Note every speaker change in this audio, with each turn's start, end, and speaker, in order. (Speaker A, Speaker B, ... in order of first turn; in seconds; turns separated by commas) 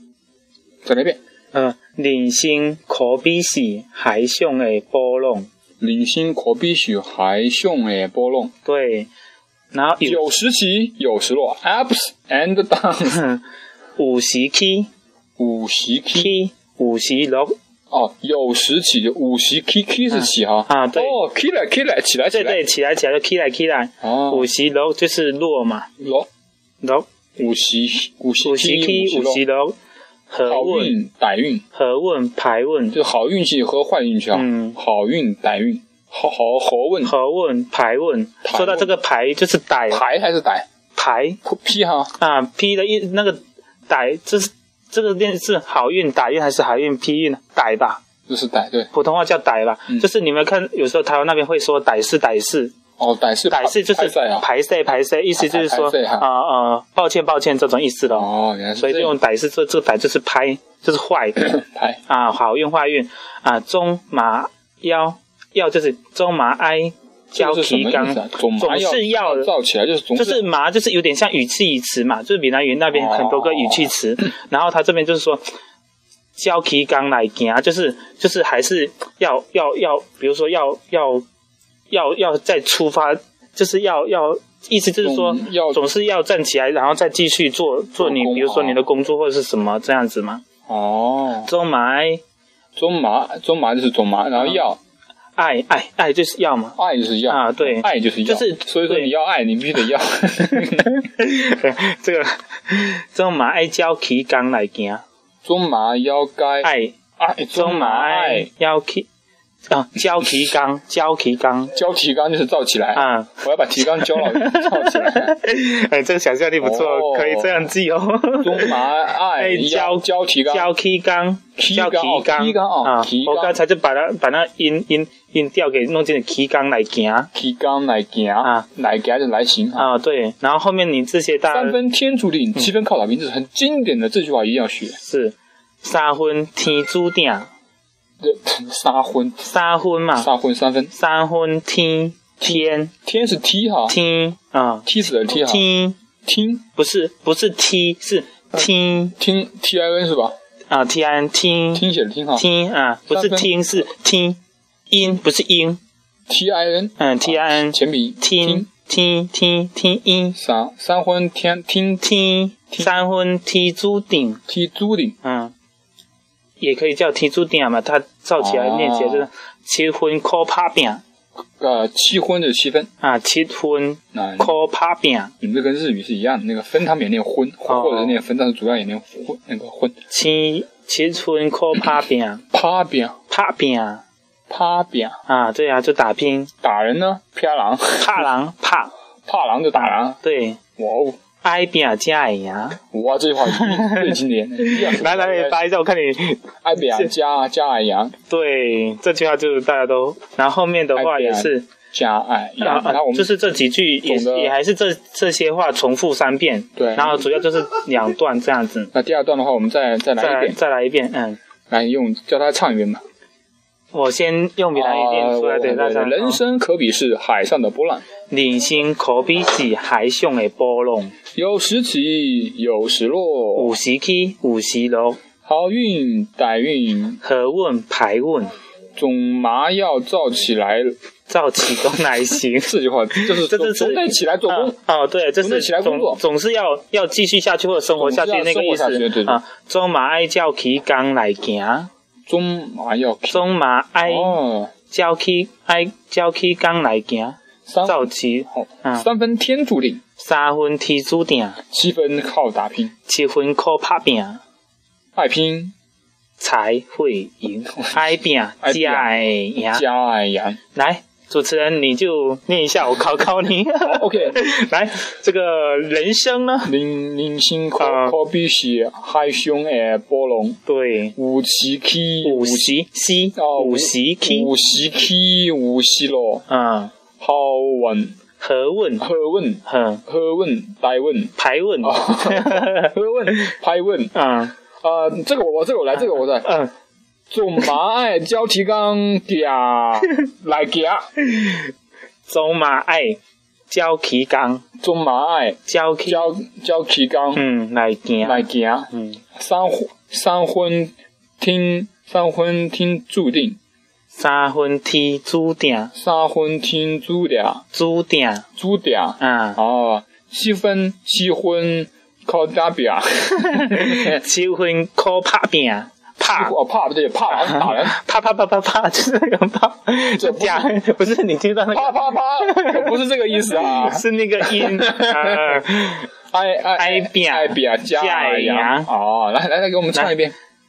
Speaker A: 0.8-1.2, Speaker B: 1.5-5.5, Speaker A: 5.8-8.5, Speaker B: 8.7-9.1, Speaker B: 9.7-10.2, Speaker A: 10.0-13.2, Speaker B: 14.0-14.9, Speaker A: 15.4-16.3, Speaker B: 16.1-17.5, Speaker A: 17.9-22.6, Speaker B: 20.1-21.2, Speaker B: 22.3-25.9, Speaker A: 24.0-24.5, Speaker A: 26.0-26.3, Speaker A: 27.4-29.4, Speaker B: 28.4-29.8, Speaker B: 30.3-31.0, Speaker A: 30.5-31.6, Speaker B: 31.8-33.0, Speaker A: 32.9-37.1, Speaker B: 34.3-34.8, Speaker B: 37.1-40.0, Speaker A: 38.4-38.9, Speaker A: 39.9-40.7, Speaker B: 41.0-41.4, Speaker A: 41.4-42.1, Speaker B: 42.2-48.0, Speaker A: 48.3-48.9, Speaker B: 48.9-52.7, Speaker A: 53.0-54.5, Speaker B: 53.5-61.5, Speaker A: 55.4-56.3, Speaker A: 58.1-59.2, Speaker A: 61.4-62.0, Speaker B: 62.1-69.5, Speaker A: 67.3-70.4, Speaker B: 70.2-75.4, Speaker A: 72.9-73.9, Speaker B: 76.4-81.2, Speaker B: 81.9-90.4, Speaker A: 85.0-85.9, Speaker A: 88.0-88.8, Speaker A: 90.7-91.5, Speaker B: 91.5-92.2, Speaker A: 92.8-94.8, Speaker B: 94.4-94.6, Speaker B: 95.4-96.8, Speaker A: 96.8-101.0, Speaker B: 97.3-99.1, Speaker B: 101.1-105.0, Speaker A: 105.5-108.5, Speaker B: 106.6-107.0, Speaker B: 107.6-109.1, Speaker B: 109.7-111.7, Speaker A: 111.8-115.3, Speaker B: 113.0-118.8, Speaker A: 116.6-117.7, Speaker A: 118.4-120.7, Speaker B: 119.3-127.3, Speaker A: 121.6-123.6, Speaker A: 127.3-129.9, Speaker B: 129.8-131.8, Speaker A: 131.5-135.0, Speaker B: 135.0-137.5, Speaker A: 138.2-139.5, Speaker B: 139.4-140.3, Speaker A: 140.2-140.9, Speaker B: 140.9-142.9, Speaker A: 142.4-144.0, Speaker B: 143.9-146.0, Speaker A: 144.9-145.7, Speaker A: 146.3-146.6, Speaker B: 146.8-149.2, Speaker A: 149.2-150.3, Speaker B: 150.7-151.8, Speaker A: 151.8-152.4, Speaker B: 152.4-154.4, Speaker A: 153.1-153.9, Speaker B: 154.9-155.8, Speaker A: 156.3-158.7, Speaker B: 157.0-160.4, Speaker A: 160.4-162.1, Speaker B: 162.0-164.4, Speaker A: 162.7-163.0, Speaker A: 164.5-165.2, Speaker B: 165.2-165.5, Speaker B: 166.6-171.0, Speaker A: 168.4-169.3, Speaker A: 171.6-172.9, Speaker B: 173.0-175.3, Speaker A: 174.1-174.5, Speaker A: 175.4-179.9, Speaker B: 177.7-178.2, Speaker B: 180.1-182.4, Speaker A: 182.5-183.2, Speaker B: 183.3-184.0, Speaker A: 184.5-185.2, Speaker B: 185.3-186.5, Speaker A: 186.6-188.3, Speaker B: 188.0-188.9, Speaker A: 189.3-190.2, Speaker B: 189.8-190.6, Speaker A: 190.8-191.2, Speaker B: 191.4-192.8, Speaker A: 192.9-195.6, Speaker B: 193.4-197.1, Speaker A: 196.6-198.1, Speaker B: 198.3-201.7, Speaker A: 200.9-203.4, Speaker B: 202.6-208.9, Speaker A: 204.0-204.6, Speaker A: 206.8-207.3, Speaker A: 208.9-210.6, Speaker B: 210.2-211.4, Speaker A: 211.7-213.0, Speaker B: 213.9-216.4, Speaker A: 214.8-218.1, Speaker B: 218.3-221.1, Speaker A: 221.4-223.8, Speaker B: 223.6-225.2, Speaker A: 225.4-227.2, Speaker B: 227.2-228.5, Speaker A: 229.0-231.0, Speaker B: 231.3-241.9, Speaker A: 232.5-234.8, Speaker A: 235.4-236.2, Speaker A: 237.9-239.4, Speaker A: 242.3-243.5, Speaker B: 243.3-249.1, Speaker A: 244.0-244.7, Speaker A: 247.7-250.0, Speaker B: 250.2-251.6, Speaker A: 251.7-252.9, Speaker B: 253.1-254.4, Speaker A: 255.2-255.7, Speaker B: 256.4-259.8, Speaker A: 257.8-260.6, Speaker B: 260.8-266.7, Speaker A: 263.9-264.4, Speaker A: 266.7-270.6, Speaker B: 267.8-268.2, Speaker B: 270.7-271.1, Speaker A: 271.2-272.8, Speaker B: 272.2-274.5, Speaker A: 273.4-276.4, Speaker B: 276.5-276.9, Speaker A: 277.2-278.2, Speaker B: 278.4-279.1, Speaker A: 279.0-284.1, Speaker B: 279.7-280.0, Speaker B: 281.4-283.4, Speaker B: 284.1-284.6, Speaker A: 284.8-286.5, Speaker B: 286.2-286.7, Speaker A: 287.3-291.1, Speaker B: 291.3-291.7, Speaker B: 292.3-293.2, Speaker B: 293.7-294.6, Speaker A: 294.8-297.4, Speaker B: 295.7-296.3, Speaker B: 297.4-299.2, Speaker A: 298.2-303.6, Speaker B: 304.1-305.9, Speaker A: 306.0-307.6, Speaker B: 307.7-308.4, Speaker A: 308.6-314.2, Speaker B: 309.2-309.6, Speaker B: 313.4-316.5, Speaker A: 316.3-318.0, Speaker B: 317.3-326.1, Speaker A: 320.1-320.7, Speaker A: 321.7-325.7, Speaker A: 326.3-330.4, Speaker B: 326.8-328.9